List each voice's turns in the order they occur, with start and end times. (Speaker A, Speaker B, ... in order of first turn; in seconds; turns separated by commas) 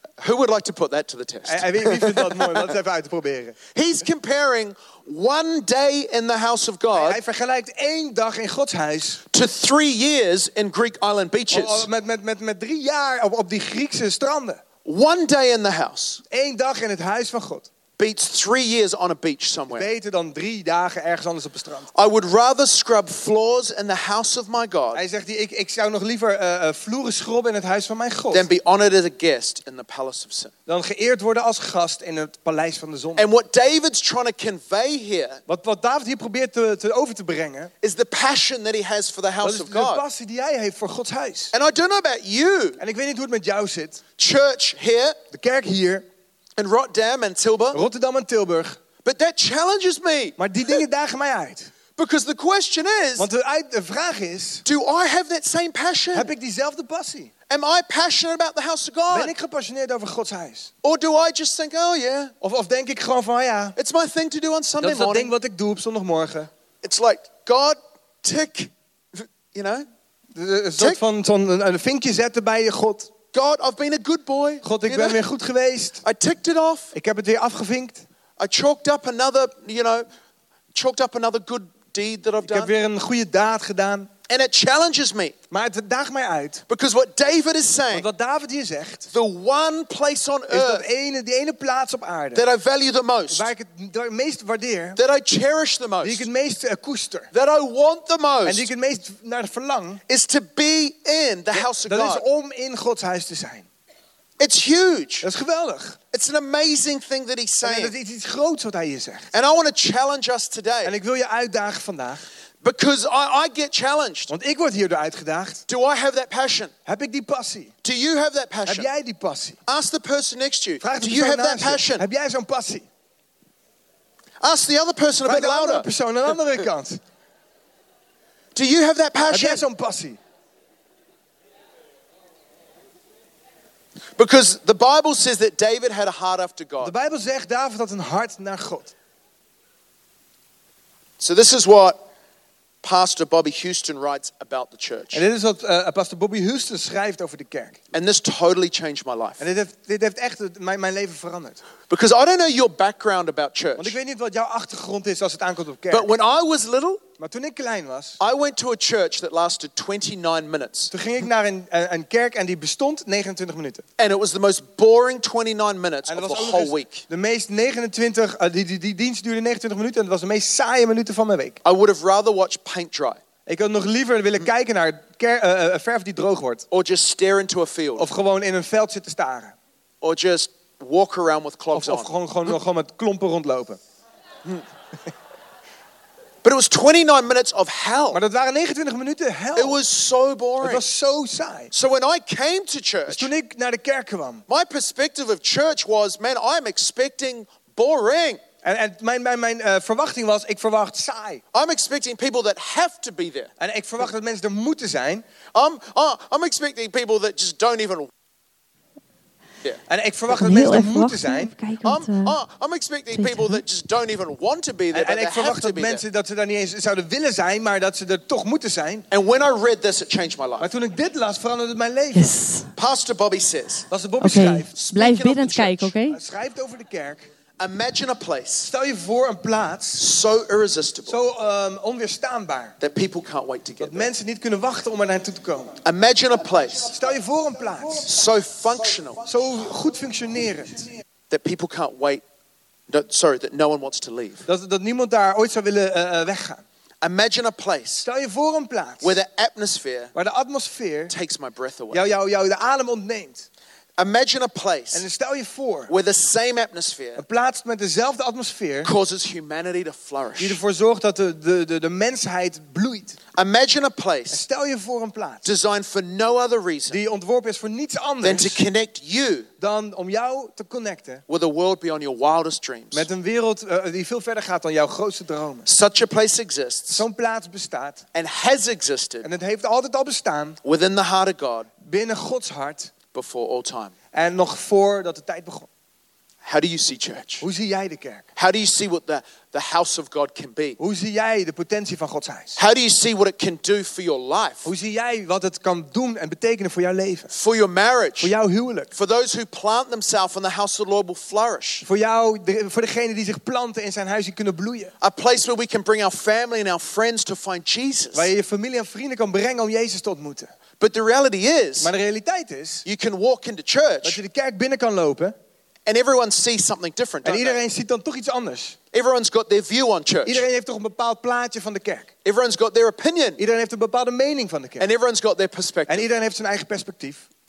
Speaker A: 0.2-2.7, Speaker B: 1.4-3.6, Speaker A: 3.7-7.2, Speaker B: 6.9-9.2, Speaker A: 9.3-11.9, Speaker B: 11.5-14.6, Speaker A: 14.8-16.2, Speaker B: 16.3-17.7, Speaker A: 18.0-19.9, Speaker B: 19.7-21.9, Speaker A: 21.9-25.0, Speaker B: 24.9-28.4, Speaker A: 28.3-30.5, Speaker B: 30.7-33.3, Speaker A: 33.1-35.4, Speaker B: 35.5-37.7, Speaker A: 37.8-40.0, Speaker B: 39.4-41.5, Speaker A: 41.5-42.8, Speaker B: 42.8-44.0, Speaker A: 44.2-45.2, Speaker B: 45.3-46.0, Speaker A: 46.6-47.8, Speaker B: 47.7-48.8, Speaker A: 49.0-50.4, Speaker B: 50.4-51.7, Speaker A: 52.0-53.3, Speaker B: 53.2-54.6, Speaker A: 54.6-56.3, Speaker B: 56.1-57.3, Speaker A: 57.5-59.3, Speaker B: 59.1-60.7, Speaker A: 60.8-62.3, Speaker B: 62.4-63.8, Speaker A: 63.8-65.3, Speaker B: 64.8-66.5, Speaker A: 66.8-69.8, Speaker B: 70.3-73.1, Speaker A: 73.3-75.2, Speaker B: 74.6-76.0, Speaker A: 76.0-76.9, Speaker B: 76.9-78.0, Speaker A: 78.4-80.0, Speaker A: 80.7-82.7, Speaker B: 82.4-84.1, Speaker A: 84.3-85.3, Speaker B: 85.5-86.6, Speaker A: 86.7-88.1, Speaker B: 87.9-89.1, Speaker A: 89.1-90.8, Speaker B: 90.5-92.4, Speaker A: 92.3-93.5, Speaker B: 93.3-95.0, Speaker A: 95.0-96.3, Speaker B: 96.0-97.3, Speaker A: 97.3-98.7, Speaker B: 98.4-100.0, Speaker A: 100.1-102.2, Speaker B: 101.5-103.7, Speaker A: 104.4-105.2, Speaker B: 105.2-106.0, Speaker A: 106.1-107.9, Speaker B: 107.6-109.3, Speaker A: 109.3-111.0, Speaker B: 110.8-112.2, Speaker A: 112.6-114.3, Speaker B: 114.3-115.6, Speaker A: 115.7-116.7, Speaker B: 116.8-117.7, Speaker A: 117.8-118.9, Speaker B: 118.7-119.6, Speaker A: 119.7-122.0, Speaker B: 120.8-122.8, Speaker A: 124.4-125.9, Speaker B: 125.2-127.0, Speaker A: 128.5-129.6, Speaker B: 129.3-130.2, Speaker A: 134.2-136.9, Speaker B: 136.8-138.9, Speaker A: 141.2-142.0, Speaker A: 142.8-145.2, Speaker B: 145.1-147.8, Speaker A: 147.9-149.4, Speaker B: 149.4-151.6, Speaker A: 151.9-153.9, Speaker B: 153.8-156.1, Speaker A: 155.9-157.0, Speaker B: 157.2-158.2, Speaker A: 158.2-160.9, Speaker B: 160.9-163.8, Speaker A: 164.0-167.0, Speaker B: 166.1-171.6, Speaker A: 171.6-173.2, Speaker B: 173.4-176.6, Speaker A: 176.7-178.1, Speaker B: 178.0-179.5, Speaker A: 180.0-182.1, Speaker B: 181.7-183.8, Speaker A: 186.4-188.2, Speaker B: 188.1-189.8, Speaker A: 189.6-190.8, Speaker B: 190.6-191.7, Speaker A: 191.7-193.3, Speaker B: 193.1-194.4, Speaker A: 194.5-198.4, Speaker B: 198.6-201.4, Speaker A: 201.5-203.5, Speaker B: 203.6-205.2, Speaker A: 205.5-208.1, Speaker B: 209.9-211.5, Speaker C: 210.3-212.4, Speaker A: 211.8-216.0, Speaker C: 213.1-213.6, Speaker B: 214.9-219.1, Speaker A: 219.1-220.7, Speaker B: 220.6-222.3, Speaker C: 222.1-222.7, Speaker A: 222.8-223.9, Speaker B: 223.9-224.7, Speaker C: 224.2-226.2, Speaker A: 224.7-225.9, Speaker B: 226.1-227.2, Speaker A: 227.6-228.7, Speaker B: 228.6-230.0, Speaker A: 230.0-231.2, Speaker B: 231.1-232.7, Speaker A: 232.8-234.1, Speaker B: 233.8-235.8, Speaker A: 235.8-236.9, Speaker B: 236.9-238.1, Speaker A: 238.1-239.2, Speaker B: 239.2-240.9, Speaker A: 241.3-242.2, Speaker A: 242.9-244.4, Speaker B: 244.4-246.6, Speaker A: 247.0-248.1, Speaker B: 248.0-249.2, Speaker A: 249.0-250.1, Speaker B: 250.1-251.1, Speaker A: 251.1-252.1, Speaker B: 251.9-253.5, Speaker A: 254.0-255.0, Speaker B: 254.9-255.9, Speaker A: 255.9-257.2, Speaker B: 257.2-258.9, Speaker A: 258.8-260.6, Speaker B: 260.4-263.2, Speaker A: 263.3-264.4, Speaker B: 264.3-265.4, Speaker A: 265.4-267.0, Speaker B: 266.9-268.6, Speaker A: 268.2-269.5, Speaker B: 269.6-271.2, Speaker A: 271.3-273.1, Speaker B: 272.9-275.7, Speaker A: 275.6-277.0, Speaker B: 276.9-278.0, Speaker A: 278.1-279.2, Speaker B: 279.2-280.6, Speaker A: 280.6-281.7, Speaker B: 281.8-282.9, Speaker A: 283.1-283.9, Speaker B: 284.1-285.7, Speaker A: 286.4-287.4, Speaker B: 287.4-288.2, Speaker A: 288.4-290.8, Speaker B: 290.8-292.6, Speaker A: 292.6-294.7, Speaker B: 294.6-297.3, Speaker A: 297.3-298.3, Speaker B: 298.2-298.9, Speaker A: 298.9-301.8, Speaker B: 301.8-304.9, Speaker A: 305.0-308.3, Speaker B: 308.1-310.5, Speaker A: 310.8-311.9, Speaker B: 311.8-312.8, Speaker A: 312.8-314.2, Speaker B: 314.0-315.3, Speaker A: 315.9-317.6, Speaker B: 317.2-318.8, Speaker A: 318.9-320.4, Speaker B: 320.2-322.1, Speaker A: 322.2-323.4, Speaker B: 323.4-324.9, Speaker A: 324.8-326.1, Speaker B: 325.9-327.2